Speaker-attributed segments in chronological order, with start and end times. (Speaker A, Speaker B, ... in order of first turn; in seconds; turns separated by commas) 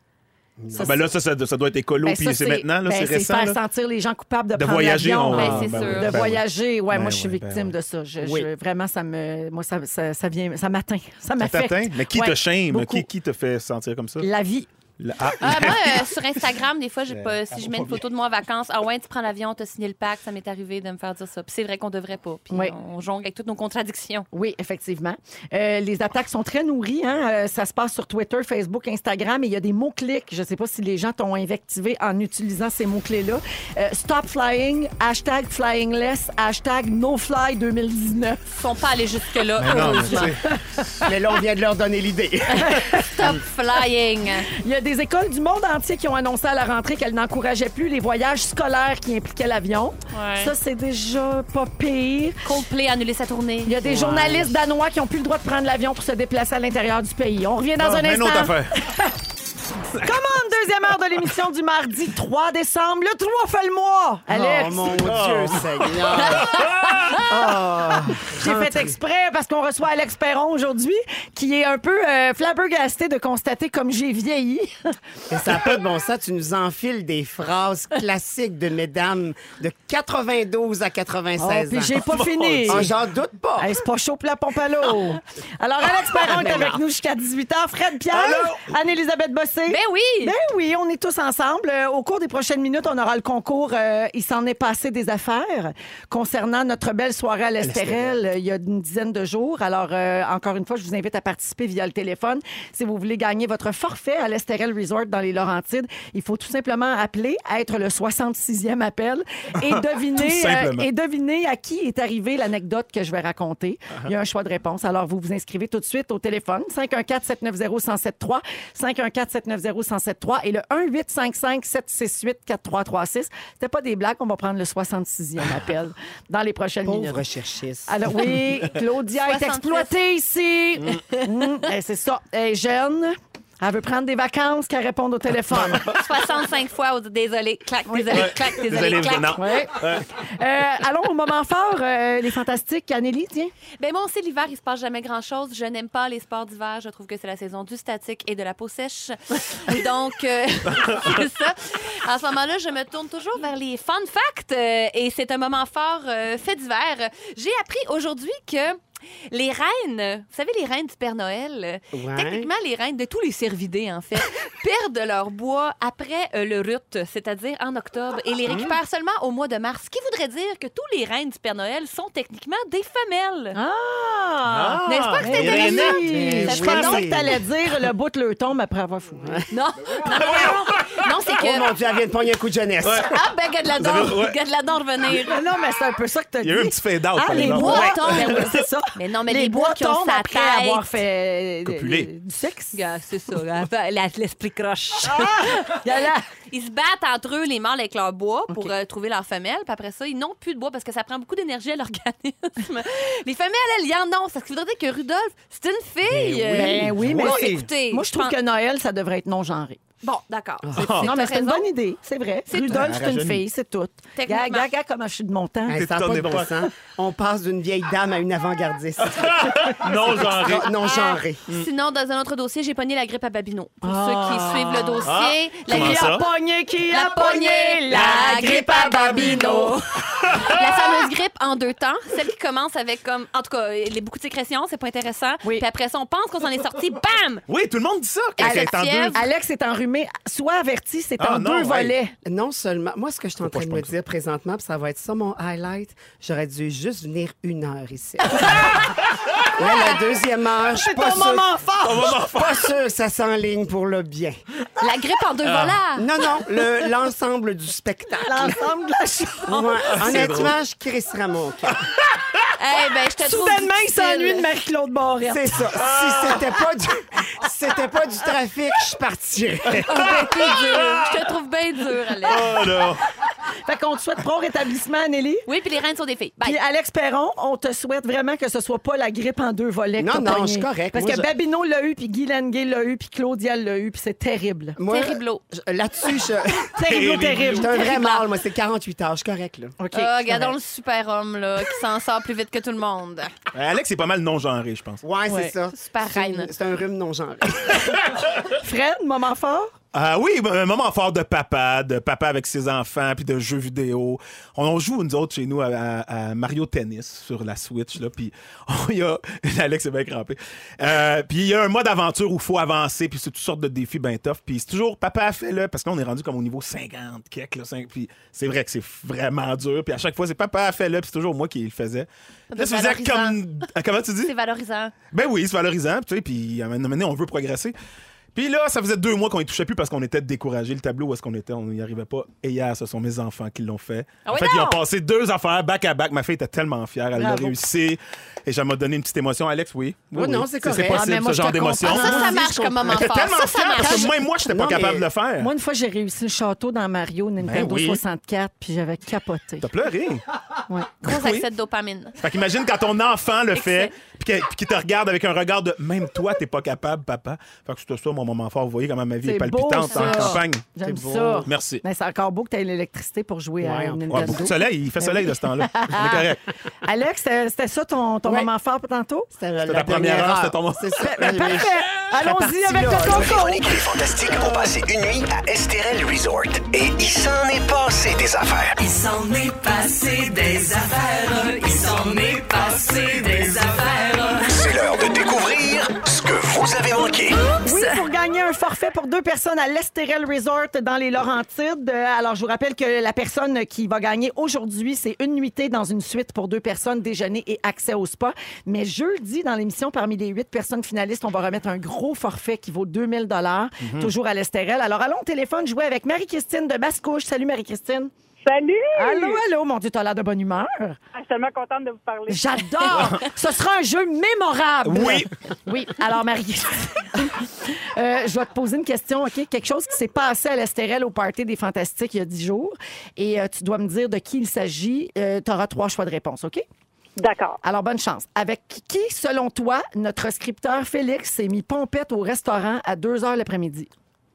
Speaker A: 0.6-1.1, Speaker B: 0.7-1.0, Speaker C: 0.8-3.6, Speaker B: 2.0-13.1, Speaker C: 4.6-7.8, Speaker D: 5.3-6.3, Speaker A: 8.2-8.5, Speaker C: 11.4-14.3, Speaker B: 14.2-14.7, Speaker C: 15.0-16.1, Speaker D: 15.4-24.3, Speaker C: 17.1-18.1, Speaker B: 24.3-38.4, Speaker D: 38.5-40.4, Speaker C: 39.6-40.4, Speaker B: 40.1-41.1, Speaker A: 41.0-42.9, Speaker B: 42.6-43.1, Speaker D: 42.6-44.5, Speaker B: 44.5-52.5, Speaker D: 50.1-50.5, Speaker D: 52.4-53.8, Speaker B: 53.6-59.1, Speaker A: 53.8-54.5, Speaker C: 57.8-58.8, Speaker B: 60.0-64.9, Speaker A: 64.3-66.6, Speaker C: 64.9-67.2, Speaker A: 67.2-69.0, Speaker B: 68.3-75.0, Speaker A: 75.3-81.9, Speaker B: 81.4-82.9, Speaker C: 82.0-82.9, Speaker A: 82.7-83.8, Speaker B: 83.6-127.2, Speaker C: 86.2-86.7, Speaker A: 86.4-86.7, Speaker C: 88.1-88.7, Speaker D: 89.7-90.3, Speaker C: 97.6-98.2, Speaker C: 109.6-110.9, Speaker A: 126.8-128.0, Speaker B: 127.9-135.9, Speaker D: 129.2-129.9, Speaker C: 135.5-136.0, Speaker D: 135.8-139.4, Speaker B: 137.9-138.3, Speaker C: 138.1-140.1, Speaker B: 139.3-143.5, Speaker D: 143.8-158.8, Speaker C: 150.7-151.2, Speaker D: 159.3-173.6, Speaker A: 161.9-162.5, Speaker C: 168.5-168.7, Speaker B: 173.6-179.5, Speaker C: 174.5-176.4, Speaker D: 174.9-177.1, Speaker A: 176.0-177.4, Speaker D: 179.5-181.7, Speaker C: 180.0-181.0, Speaker A: 181.4-183.2, Speaker C: 182.8-183.2, Speaker D: 183.0-185.4, Speaker C: 183.8-184.4, Speaker B: 185.2-192.8, Speaker C: 186.4-188.5, Speaker D: 187.3-190.9, Speaker C: 191.7-192.1, Speaker D: 192.7-208.3, Speaker B: 195.1-196.2, Speaker A: 206.1-207.7, Speaker B: 206.5-209.8, Speaker D: 210.0-211.7, Speaker C: 210.7-211.1, Speaker B: 211.0-215.8, Speaker D: 212.5-212.9, Speaker C: 212.7-213.4, Speaker D: 214.2-214.7, Speaker A: 215.7-221.4, Speaker C: 215.7-216.7, Speaker C: 219.0-220.7, Speaker D: 220.8-226.2, Speaker B: 223.8-225.1, Speaker C: 225.0-226.3, Speaker B: 225.7-229.8, Speaker D: 226.9-237.4, Speaker C: 230.3-230.6, Speaker C: 237.5-239.2, Speaker D: 238.4-239.2, Speaker B: 238.4-242.1, Speaker C: 241.2-241.9, Speaker A: 242.2-248.8, Speaker C: 243.4-243.9, Speaker B: 248.4-248.7, Speaker C: 248.8-249.4, Speaker A: 249.5-254.4, Speaker B: 250.7-252.2, Speaker C: 251.8-252.7, Speaker D: 254.8-256.1, Speaker C: 255.4-255.8, Speaker A: 255.9-258.6, Speaker B: 258.2-259.7, Speaker A: 259.5-261.9, Speaker C: 259.9-260.6, Speaker C: 261.7-262.4, Speaker D: 262.6-264.5, Speaker B: 263.2-265.4, Speaker A: 265.2-270.2, Speaker C: 265.7-266.5, Speaker C: 269.7-271.1, Speaker D: 269.9-272.5, Speaker C: 272.2-273.1, Speaker B: 273.7-275.5, Speaker D: 275.5-276.6, Speaker B: 276.4-284.8, Speaker A: 280.0-281.3, Speaker A: 284.8-286.7, Speaker D: 284.9-285.4, Speaker B: 286.8-287.8, Speaker C: 286.8-287.8, Speaker A: 287.5-289.8, Speaker D: 287.8-288.2, Speaker B: 289.8-290.6, Speaker D: 289.9-293.3, Speaker C: 293.5-295.0, Speaker A: 295.0-297.8, Speaker B: 295.3-295.5, Speaker D: 295.7-296.5, Speaker B: 298.5-299.7, Speaker C: 299.9-324.3, Speaker D: 322.5-323.4, Speaker D: 324.2-324.9, Speaker C: 325.1-327.8, Speaker C: 328.3-345.5, Speaker D: 334.2-334.8, Speaker B: 337.1-337.6, Speaker A: 340.1-341.1, Speaker B: 340.9-342.6, Speaker D: 341.9-344.2, Speaker A: 342.0-343.1, Speaker A: 344.3-345.1, Speaker B: 345.4-349.7, Speaker C: 347.4-348.0, Speaker C: 349.6-350.2, Speaker C: 351.0-351.5, Speaker D: 351.0-352.2, Speaker C: 352.2-360.6, Speaker D: 353.5-353.9, Speaker B: 359.2-366.3, Speaker D: 359.9-360.4, Speaker A: 360.8-361.5, Speaker C: 361.4-361.8, Speaker A: 363.6-364.5, Speaker C: 364.1-366.4, Speaker B: 366.8-369.3, Speaker A: 368.2-368.5, Speaker A: 369.3-373.8, Speaker C: 369.6-371.5, Speaker B: 371.0-373.7, Speaker E: 373.2-378.7, Speaker F: 378.8-384.6, Speaker E: 384.5-387.4, Speaker B: 387.6-408.1, Speaker C: 403.8-404.1, Speaker G: 408.4-409.4, Speaker B: 409.0-411.0, Speaker G: 411.1-412.9, Speaker B: 412.3-426.6, Speaker C: 412.9-413.3, Speaker C: 414.8-415.4, Speaker G: 427.2-427.6, Speaker B: 427.6-433.9